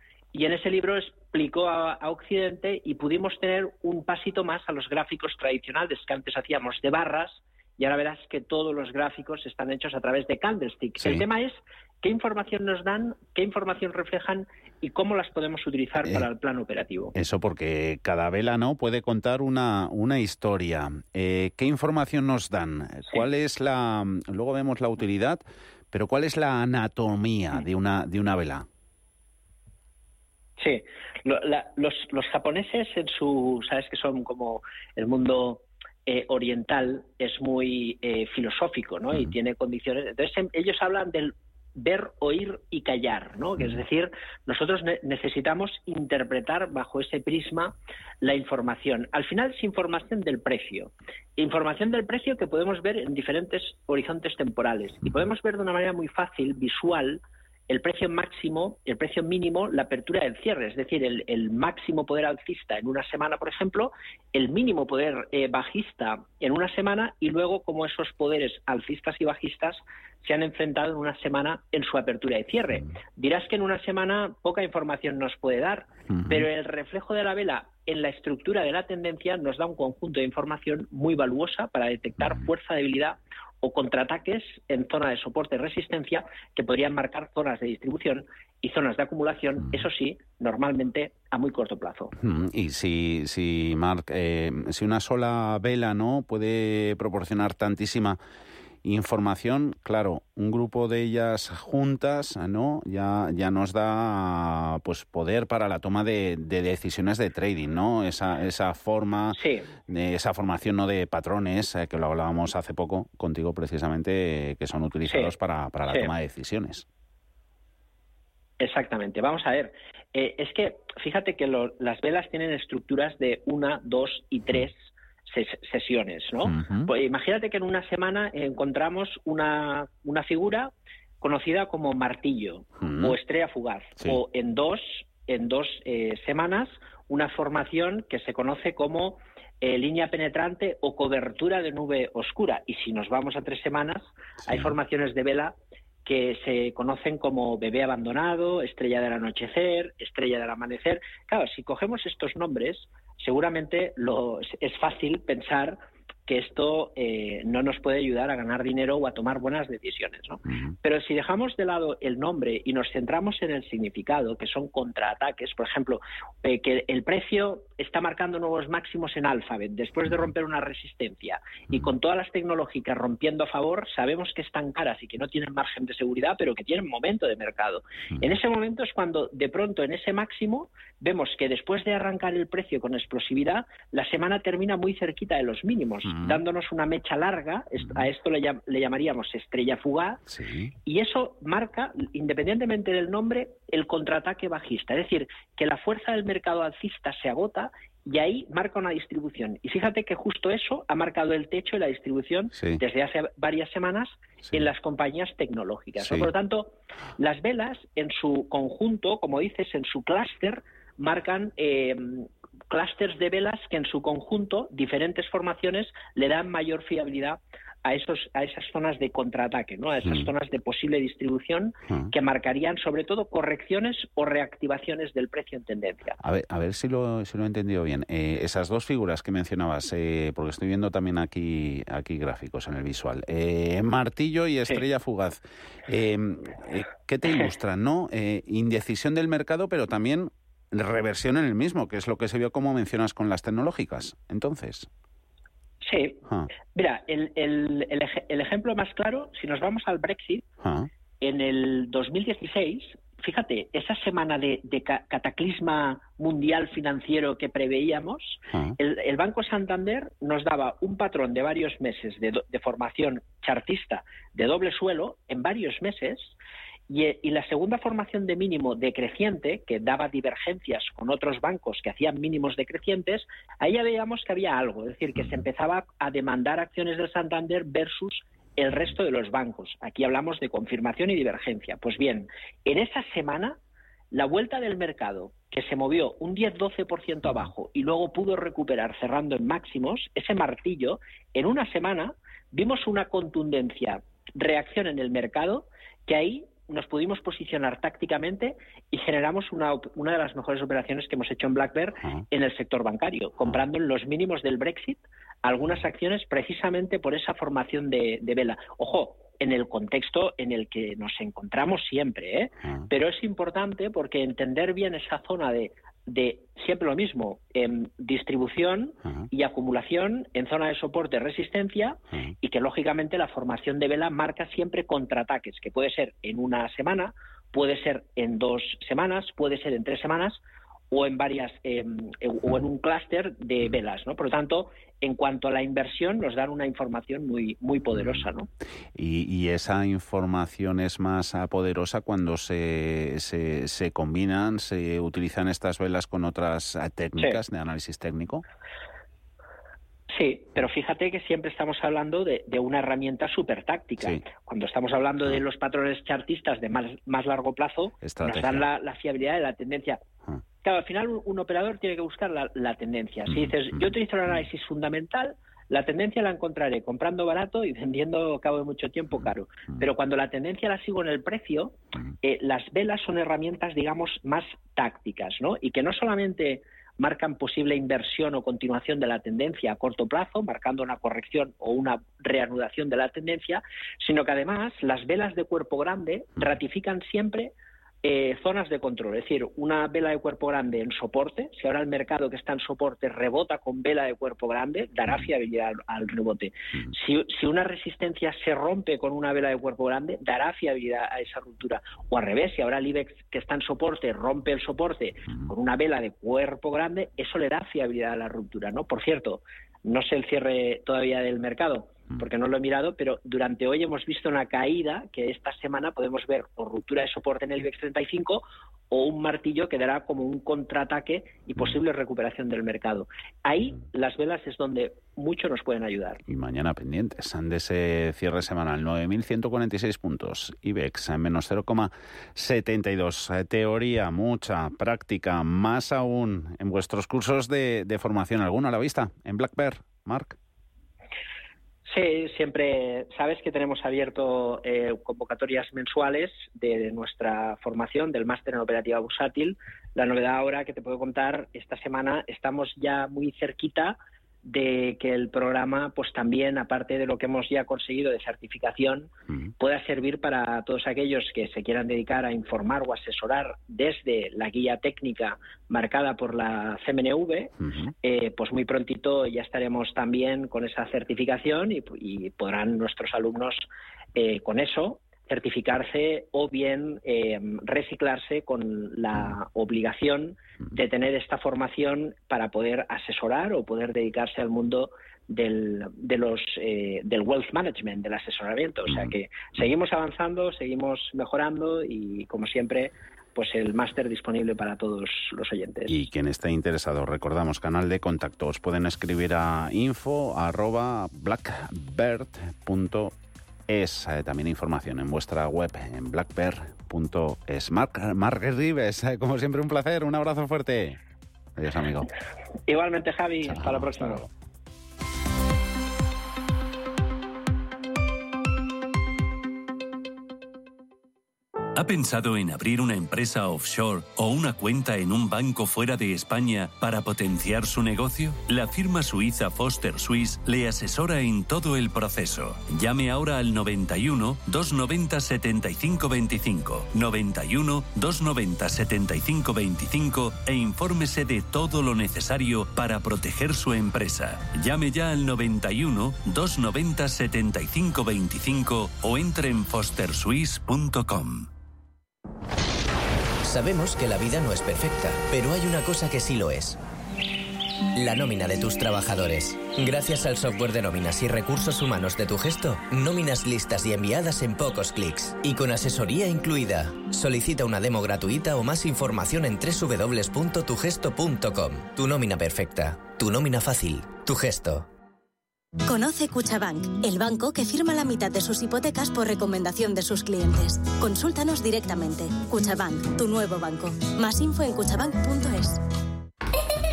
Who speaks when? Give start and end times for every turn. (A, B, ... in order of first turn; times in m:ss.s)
0:00.3-0:17.1 A
0:11.0-0:11.3 B
0:16.0-0:16.3 B
0:17.2-0:28.7 B
0:30.6-1:32.1 A
1:16.1-1:16.5 B
1:22.2-1:22.4 B
1:32.2-1:38.2 B
1:38.8-1:56.8 B
1:49.3-1:49.7 A
1:55.1-1:55.4 A
1:58.6-3:10.2 A
2:06.4-2:06.9 B
2:12.8-2:13.2 B
2:24.4-2:24.8 B
2:40.5-2:40.7 B
3:06.0-3:06.4 B
3:07.8-3:08.1 B
3:10.3-3:10.7 B
3:10.9-3:46.2 A
3:22.5-3:22.8 B
3:26.0-3:26.3 B
3:40.0-3:40.3 B
3:46.2-4:04.9 B
4:05.8-4:06.2 A
4:06.3-4:06.5 B
4:06.7-4:10.5 A
4:10.6-4:10.9 B
4:11.2-4:26.4 A
4:18.5-4:18.8 B
4:26.9-4:43.6 A
4:35.2-4:35.4 B
4:44.1-5:30.4 A
5:30.9-5:38.5 A
5:37.9-5:38.3 B
5:39.0-5:48.4 B
5:50.1-6:00.0 A
5:58.0-5:58.7 B
6:00.6-7:06.2 A
6:03.3-6:04.4 B
6:09.2-6:09.9 B
7:06.3-7:20.4 B
7:21.9-8:16.0 A
7:47.6-7:47.9 B
8:08.9-8:09.2 B
8:15.9-8:23.2 B
8:23.7-8:31.0 B
8:31.6-8:32.1 B
8:32.7-8:34.2 A
8:33.4-8:34.3 B
8:41.8-9:11.5 C
9:13.5-9:16.8 D
9:18.0-9:34.9 D
9:35.9-9:45.8 E